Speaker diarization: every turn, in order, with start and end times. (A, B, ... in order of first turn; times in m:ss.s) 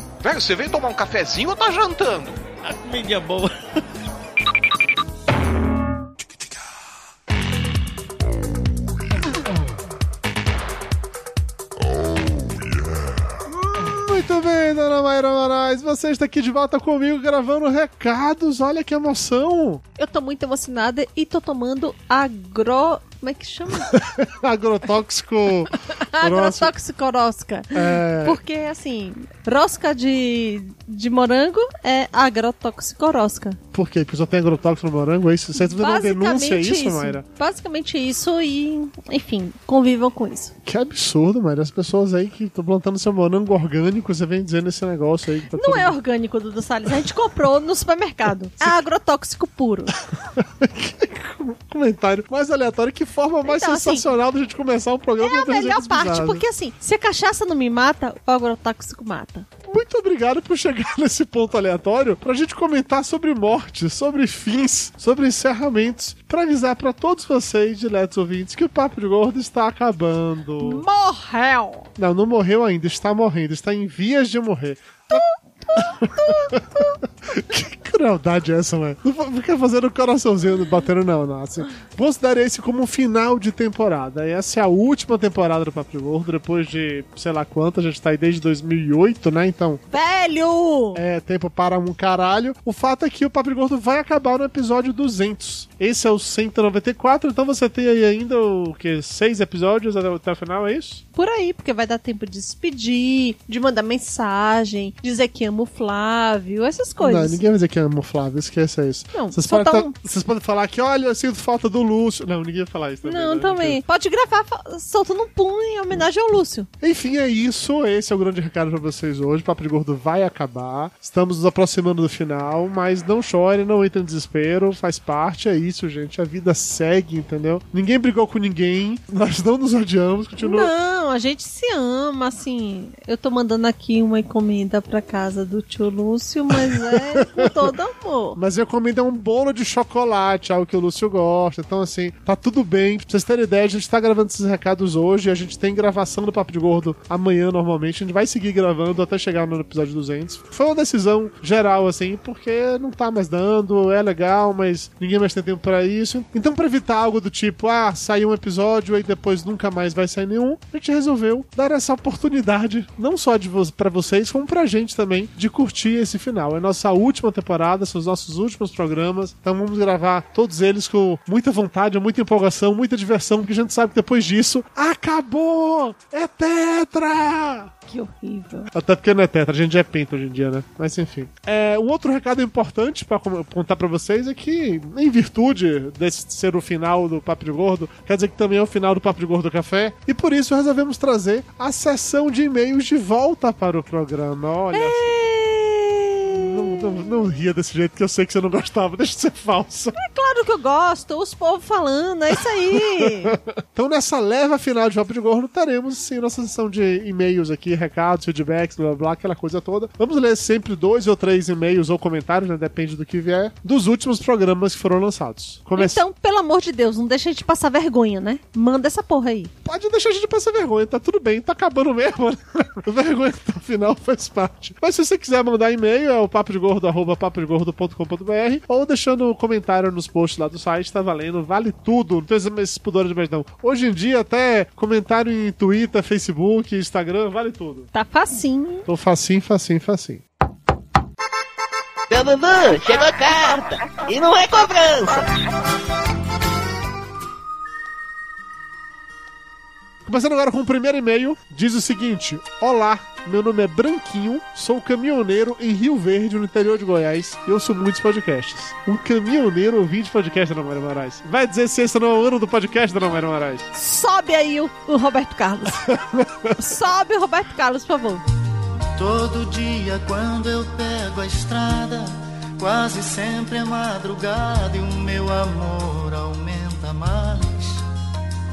0:00.2-0:02.4 A
0:13.5-0:19.8 B
0:20.0-0:23.9 C
0:23.9-0:26.7 B
0:26.0-0:33.6 C
0:27.7-0:28.4 B
0:33.7-0:37.2 B
0:35.6-0:40.5 C
0:40.6-0:45.9 B
0:45.6-0:49.9 C
0:50.4-0:56.4 B
0:53.4-0:54.1 C
0:55.2-0:59.5 C
0:59.7-1:10.8 B
1:10.6-1:11.9 C
1:12.0-1:15.2 B
1:15.1-1:16.5 C
1:15.8-1:29.8 B
1:29.9-1:31.0 C
1:30.9-1:41.0 B
1:41.1-1:47.4 C
1:47.0-1:53.8 B
1:49.1-1:49.9 C
1:53.0-1:56.7 C
1:56.8-2:10.7 B
2:10.4-2:18.4 C
2:16.7-2:17.5 B
2:18.4-2:57.7 B
2:57.9-2:58.7 C
2:58.7-3:15.0 B
3:14.7-3:17.0 C
3:16.3-3:19.9 B
3:20.0-3:23.3 C
3:22.7-3:36.0 B
3:35.8-3:39.5 C
3:39.6-3:57.9 B
3:57.9-3:58.8 C
3:58.9-4:00.2 B
4:02.1-4:05.3 D
4:10.0-4:23.7 B
4:23.7-4:25.9 C
4:25.8-4:26.5 B
4:26.6-4:28.2 C
4:29.0-4:37.8 E